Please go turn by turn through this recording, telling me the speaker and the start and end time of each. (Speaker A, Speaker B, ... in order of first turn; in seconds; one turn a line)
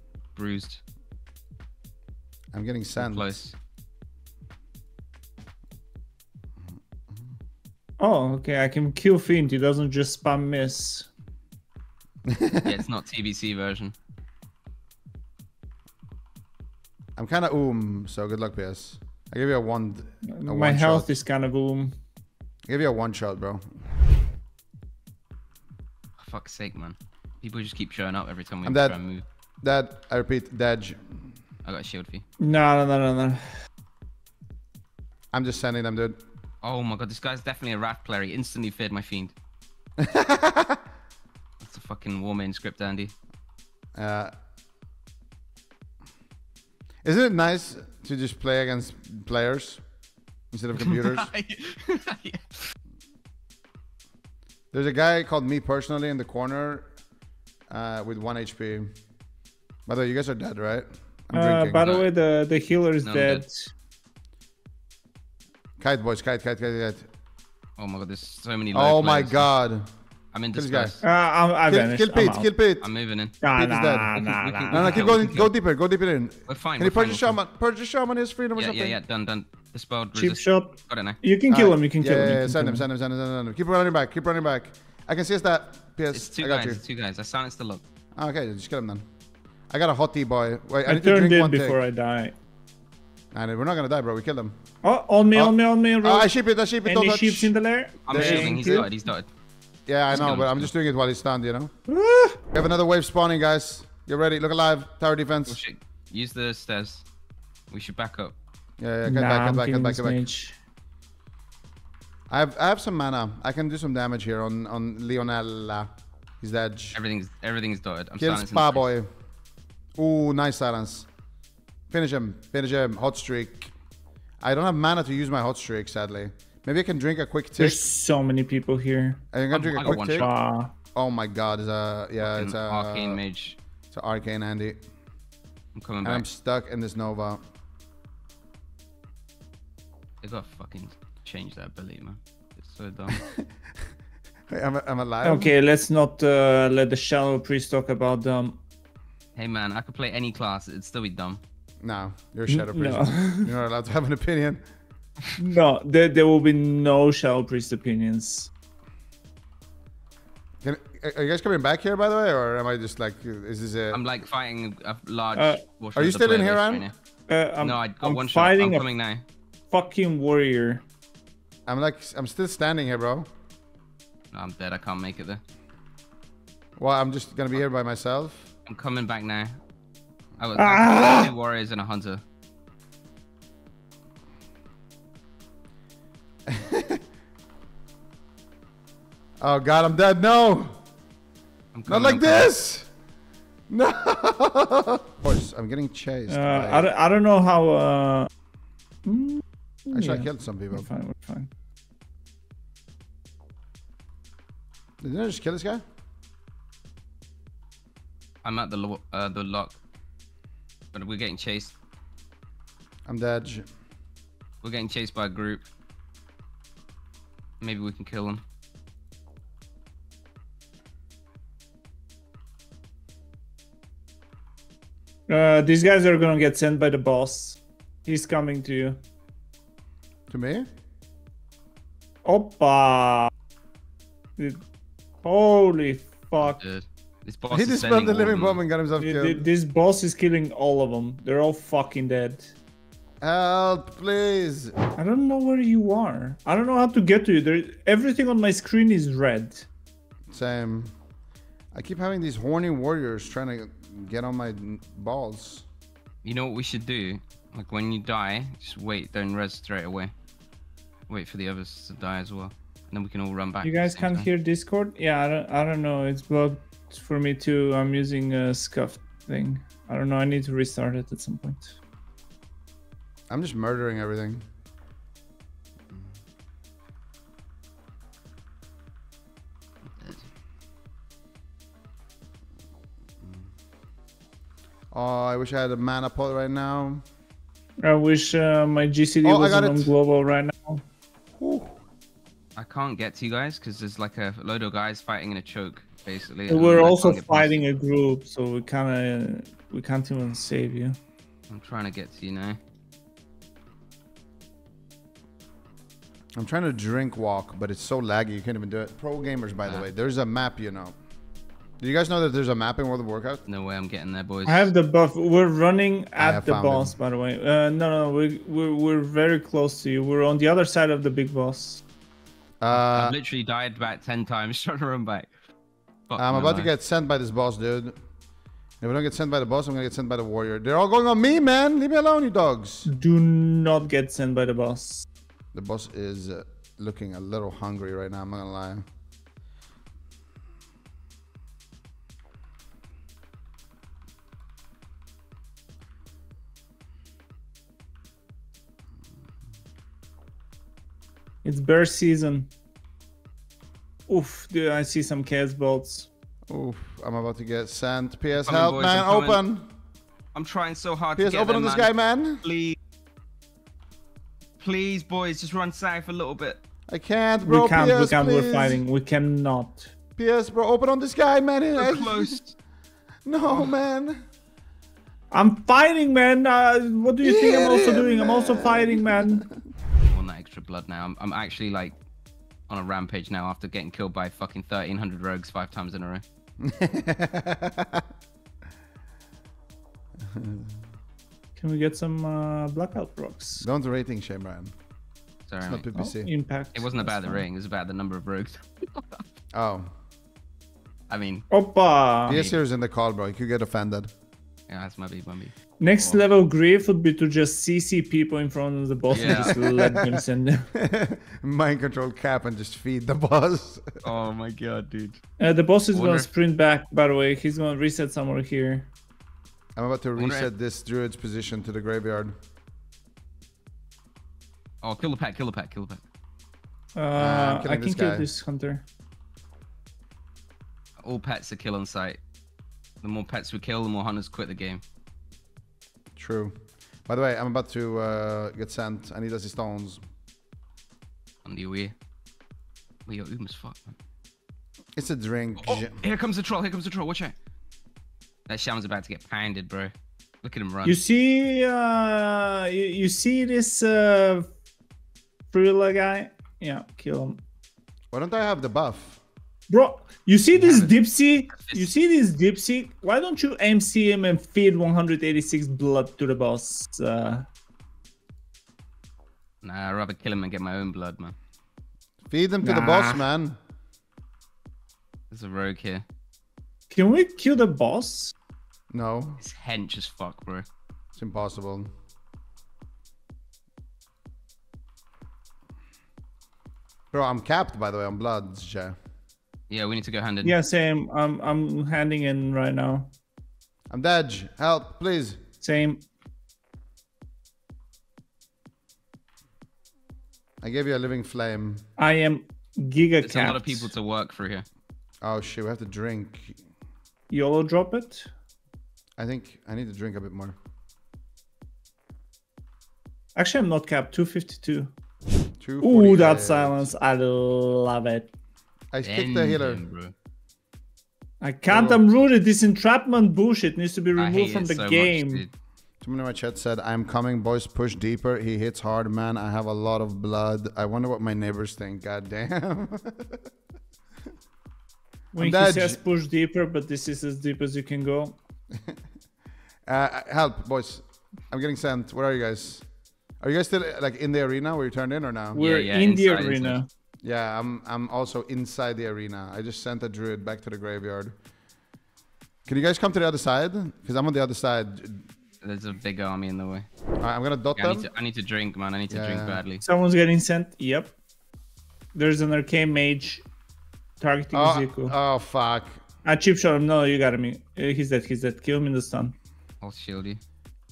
Speaker A: 0.3-0.8
Speaker B: 2.5-3.4
Speaker A: 3.0-3.5
Speaker C: 8.0-11.1
Speaker B: 12.3-12.7
Speaker A: 12.6-13.9
Speaker B: 17.2-21.2
Speaker C: 20.3-21.9
Speaker B: 22.7-23.6
Speaker A: 26.2-29.2
Speaker B: 28.6-29.0
Speaker B: 29.6-31.3
Speaker A: 31.6-32.2
Speaker C: 32.4-33.5
Speaker B: 35.3-36.2
Speaker A: 36.6-39.3
Speaker B: 40.0-40.8
Speaker A: 41.6-43.1
Speaker B: 44.0-44.3
Speaker B: 47.0-49.8
Speaker B: 50.5-51.3
Speaker A: 50.8-52.6
Speaker B: 54.7-56.9
Speaker B: 57.7-58.9
Speaker B: 59.9-61.9
Speaker C: 61.3-63.7
Speaker A: 61.8-62.1
Speaker A: 63.0-63.4
Speaker B: 65.8-67.1
Speaker A: 67.8-69.5
Speaker B: 68.7-69.9
Speaker A: 70.3-71.0
Speaker B: 70.5-71.0
Speaker C: 71.0-72.5
Speaker B: 71.7-72.9
Speaker A: 72.8-73.4
Speaker C: 73.4-75.0
Speaker B: 73.5-79.0
Speaker A: 74.1-75.5
Speaker A: 76.5-77.4
Speaker A: 78.5-81.2
Speaker C: 80.1-82.8
Speaker B: 81.5-86.8
Speaker A: 86.1-87.8
Speaker B: 88.2-89.0
Speaker B: 89.7-91.8
Speaker C: 90.8-92.3
Speaker B: 93.3-94.5
Speaker C: 94.8-96.3
Speaker B: 95.3-97.5
Speaker C: 96.8-98.9
Speaker A: 98.0-99.3
Speaker B: 98.1-98.9
Speaker B: 99.9-101.7
Speaker A: 100.1-100.7
Speaker C: 101.9-102.4
Speaker B: 102.5-105.6
Speaker A: 105.5-107.0
Speaker A: 107.7-108.3
Speaker B: 108.8-110.2
Speaker C: 109.0-110.5
Speaker B: 112.3-117.0
Speaker A: 116.9-118.9
Speaker B: 118.2-119.1
Speaker B: 120.0-121.1
Speaker B: 121.9-123.7
Speaker B: 124.4-127.8
Speaker C: 127.6-129.3
Speaker B: 129.3-130.3
Speaker A: 129.5-130.3
Speaker C: 129.8-130.7
Speaker B: 130.9-133.2
Speaker A: 132.2-133.6
Speaker B: 133.9-134.8
Speaker A: 135.7-136.2
Speaker B: 136.0-137.4
Speaker A: 140.2-143.2
Speaker B: 143.2-143.5
Speaker B: 144.5-145.5
Speaker C: 145.2-148.6
Speaker A: 149.3-151.4
Speaker B: 151.8-154.6
Speaker C: 152.5-153.5
Speaker C: 155.4-158.5
Speaker B: 160.6-164.0
Speaker A: 163.9-166.9
Speaker B: 165.9-166.9
Speaker C: 167.3-168.9
Speaker A: 167.6-169.2
Speaker C: 169.7-170.8
Speaker B: 171.7-173.3
Speaker A: 174.3-175.4
Speaker B: 176.8-178.5
Speaker A: 178.7-179.6
Speaker A: 180.4-182.2
Speaker C: 180.6-181.3
Speaker B: 186.5-187.0
Speaker B: 189.4-190.8
Speaker A: 191.7-192.5
Speaker B: 191.9-192.9
Speaker B: 193.7-196.9
Speaker C: 196.3-198.3
Speaker C: 199.0-201.5
Speaker B: 199.9-200.9
Speaker B: 205.0-205.8
Speaker A: 208.4-209.8
Speaker A: 210.9-211.7
Speaker B: 213.1-213.7
Speaker A: 214.6-215.7
Speaker A: 217.6-218.4
Speaker C: 225.3-229.0
Speaker B: 230.3-230.7
Speaker C: 232.2-233.3
Speaker C: 234.4-234.6
Speaker C: 235.2-236.6
Speaker A: 236.4-238.6
Speaker B: 237.5-239.5
Speaker C: 238.9-242.5
Speaker B: 243.2-244.7
Speaker C: 245.0-249.7
Speaker B: 250.3-250.9
Speaker B: 251.7-255.6
Speaker A: 256.2-260.1
Speaker A: 261.1-264.3
Speaker C: 263.6-271.7
Speaker B: 273.3-274.4
Speaker A: 280.0-280.2
Speaker B: 284.9-287.0
Speaker C: 287.8-290.8
Speaker B: 289.2-289.9
Speaker B: 291.4-291.8
Speaker A: 292.6-297.7
Speaker C: 296.5-301.0
Speaker A: 301.5-302.6
Speaker B: 306.4-310.9
Speaker B: 311.8-313.4
Speaker A: 313.5-314.7
Speaker C: 314.4-321.8
Speaker B: 316.2-317.0
Speaker B: 322.6-323.1
Speaker A: 322.7-325.3
Speaker A: 326.1-326.7
Speaker B: 326.1-327.9
Speaker B: 328.8-332.9
Speaker C: 332.9-335.1
Speaker B: 335.5-338.8
Speaker C: 351.4-352.5
Speaker C: 354.1-356.1
Speaker B: 356.5-359.7
Speaker A: 358.4-359.4
Speaker A: 360.3-362.8
Speaker B: 361.2-362.4
Speaker A: 364.6-366.6
Speaker B: 366.9-368.8
Speaker C: 367.4-369.9
Speaker B: 370.2-372.4
Speaker A: 371.8-372.5
Speaker B: 373.2-374.2
Speaker C: 375.3-379.4
Speaker B: 377.2-379.4
Speaker A: 380.1-382.0
Speaker A: 382.7-386.2
Speaker B: 386.6-388.0
Speaker B: 390.3-390.7
Speaker C: 391.6-393.6
Speaker B: 393.6-394.7
Speaker A: 395.5-395.9
Speaker B: 395.6-396.3
Speaker C: 395.9-397.4
Speaker A: 396.7-399.3
Speaker B: 399.5-399.9
Speaker A: 401.1-401.5
Speaker C: 401.5-402.4
Speaker B: 402.3-404.1
Speaker A: 402.3-402.6
Speaker A: 404.7-406.2
Speaker C: 405.8-410.6
Speaker A: 409.1-409.5
Speaker B: 409.1-410.2
Speaker B: 410.7-414.0
Speaker A: 414.0-415.2
Speaker C: 415.4-418.9
Speaker A: 415.9-416.3
Speaker B: 419.8-422.3
Speaker A: 420.2-420.5
Speaker A: 424.8-426.0
Speaker C: 426.9-428.8
Speaker B: 427.1-428.3
Speaker A: 431.0-432.2
Speaker A: 433.0-434.8
Speaker B: 436.1-436.5
Speaker B: 437.1-440.0
Speaker A: 441.4-441.9
Speaker A: 443.1-443.9
Speaker B: 445.0-446.0
Speaker A: 445.6-447.3
Speaker A: 448.5-451.0
Speaker C: 450.8-454.5
Speaker C: 455.5-457.4
Speaker B: 458.1-459.2
Speaker C: 459.7-467.4
Speaker A: 460.5-461.9
Speaker A: 469.6-471.3
Speaker B: 472.3-473.6
Speaker C: 472.6-473.3
Speaker A: 475.3-476.0
Speaker C: 476.9-478.3
Speaker B: 478.9-479.4
Speaker A: 479.4-480.6
Speaker B: 481.1-481.9
Speaker B: 487.1-488.9
Speaker A: 489.7-490.6
Speaker C: 490.4-493.1
Speaker B: 493.9-495.4
Speaker C: 495.6-496.0
Speaker B: 500.6-501.8
Speaker C: 502.0-503.9
Speaker A: 503.2-504.6
Speaker B: 505.2-506.6
Speaker C: 507.3-508.3
Speaker B: 509.2-510.6
Speaker C: 513.4-514.9
Speaker B: 515.6-516.9
Speaker C: 515.8-518.3
Speaker B: 518.9-519.8
Speaker A: 519.0-520.1
Speaker C: 521.4-525.4
Speaker B: 521.7-522.0
Speaker A: 524.1-525.5
Speaker B: 526.0-533.4
Speaker C: 535.3-538.4
Speaker B: 535.4-536.0
Speaker B: 539.9-542.9
Speaker B: 543.4-545.6
Speaker C: 545.5-546.9
Speaker A: 545.5-546.8
Speaker B: 547.2-551.3
Speaker B: 552.6-555.3
Speaker A: 555.6-556.9
Speaker B: 557.2-558.1
Speaker A: 557.8-559.8
Speaker B: 559.1-559.6
Speaker C: 559.8-561.1
Speaker C: 562.1-563.4
Speaker C: 564.2-565.1
Speaker B: 564.5-566.0
Speaker C: 566.2-569.3
Speaker A: 569.8-570.4